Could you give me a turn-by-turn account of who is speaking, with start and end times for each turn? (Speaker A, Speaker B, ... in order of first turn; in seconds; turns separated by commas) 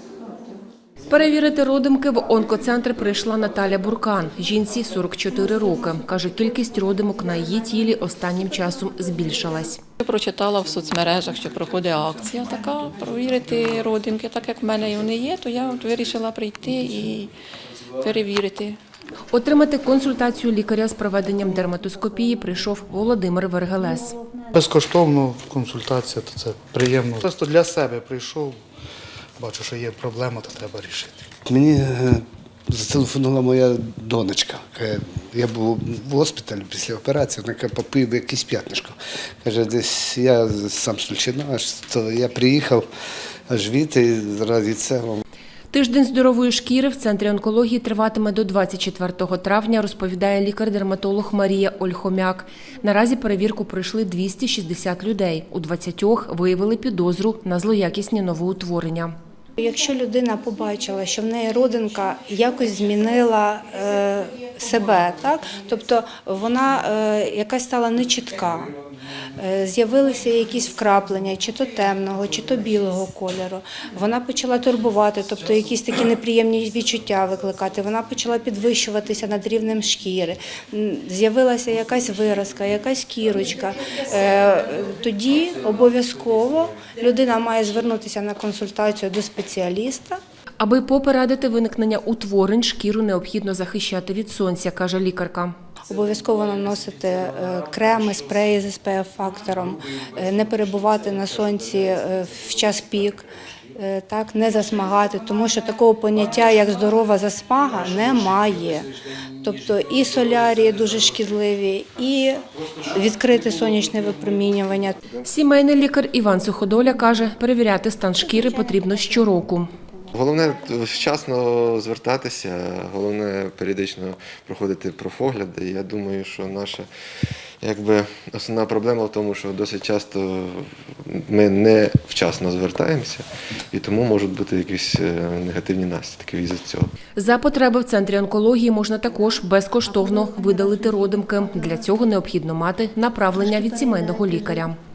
Speaker A: 1.1-9.8, Speaker B: 10.0-17.3, Speaker B: 18.0-18.8, Speaker A: 19.3-24.2, Speaker C: 24.5-28.6, Speaker C: 29.4-31.3, Speaker D: 31.4-42.8, Speaker D: 43.5-45.2, Speaker A: 45.7-59.1, Speaker E: 59.6-68.8, Speaker E: 69.4-90.2, Speaker A: 90.6-95.5, Speaker E: 95.9-115.0, Speaker A: 115.2-119.7, Speaker F: 120.1-126.9, Speaker F: 127.6-136.9, Speaker A: 137.2-144.8